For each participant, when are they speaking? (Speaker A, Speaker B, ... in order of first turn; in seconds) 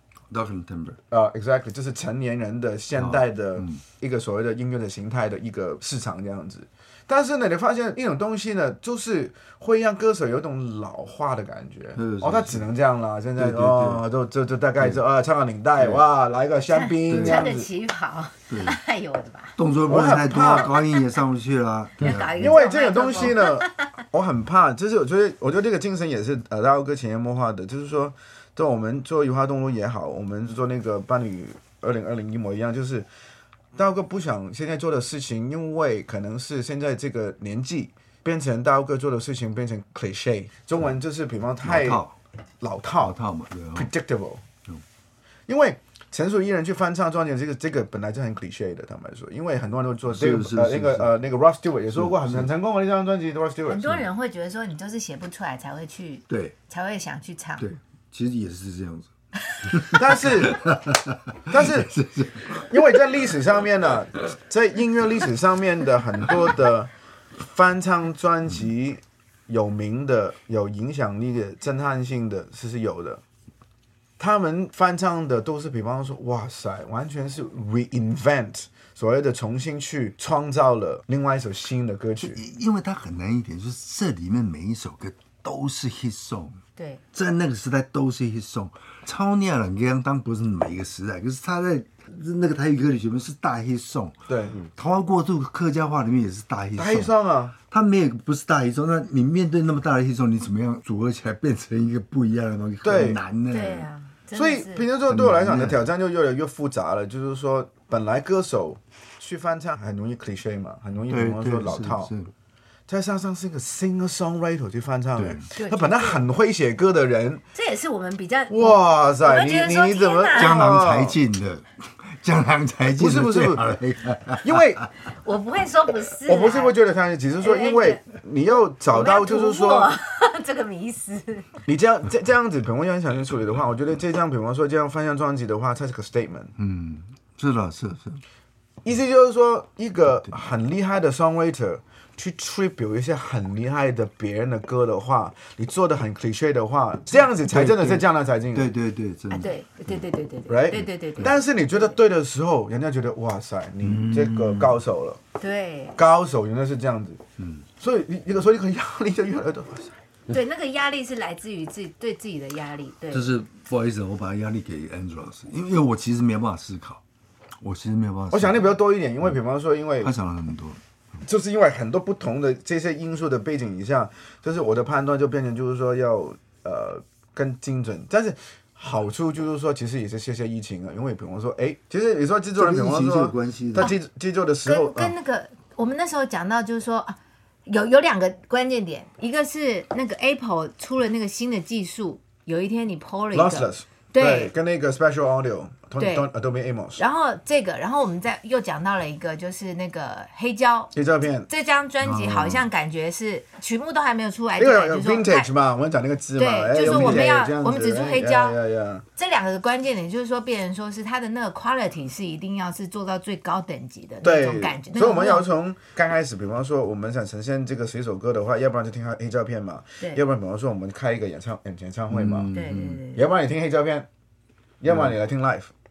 Speaker A: 0.3-1.0, 3.0-3.8, 12.0-12.7, 13.4-14.0, 15.8-16.0, 17.1-17.5, 18.5-18.8, 19.6-22.6, 41.6-42.2, 43.0-43.9, 50.1-51.1, 51.9-52.5, 56.3-56.5, 57.6-59.1, 59.6-63.2, 82.2-86.6, 87.1-97.1, 97.7-103.9, 105.1-105.8, 111.1-112.3, 115.2-115.5, 120.3-124.9, 136.6-138.2, 147.4-150.0, 153.8-154.8, 157.4-157.7, 163.1-167.0, 167.6-169.4, 170.0-170.8, 182.6-183.9, 202.0-202.7, 206.9-207.3, 222.1-223.0, 224.9-225.2
Speaker B: 1.1-17.7, 19.9-20.8, 22.1-33.1, 33.8-42.0, 42.6-43.2, 43.7-44.4, 45.5-54.0, 59.9-60.6, 61.5-62.0, 62.5-73.2, 74.2-82.4, 94.3-94.7, 96.8-97.5, 102.8-103.2, 104.3-112.1, 112.9-117.4, 118.5-121.2, 122.9-123.7, 124.4-124.9, 126.2-129.9, 131.7-136.5, 138.8-148.7, 150.5-155.2, 156.0-157.2, 157.8-160.0, 168.3-170.1, 171.2-185.1, 193.3-197.0, 200.9-201.5, 204.6-209.1, 214.2-222.5, 223.2-224.1, 224.8-225.7
Speaker C: 16.7-19.6, 22.0-23.9, 53.7-57.7, 59.5-59.7, 103.5-104.9, 115.6-116.2, 117.5-120.7, 125.1-126.8, 127.4-128.0, 128.9-131.6, 149.3-152.0, 155.4-156.0, 160.3-163.3, 184.7-194.5, 196.0-196.3, 197.0-201.0, 201.5-205.5, 206.4-208.6, 209.2-215.5, 222.5-223.3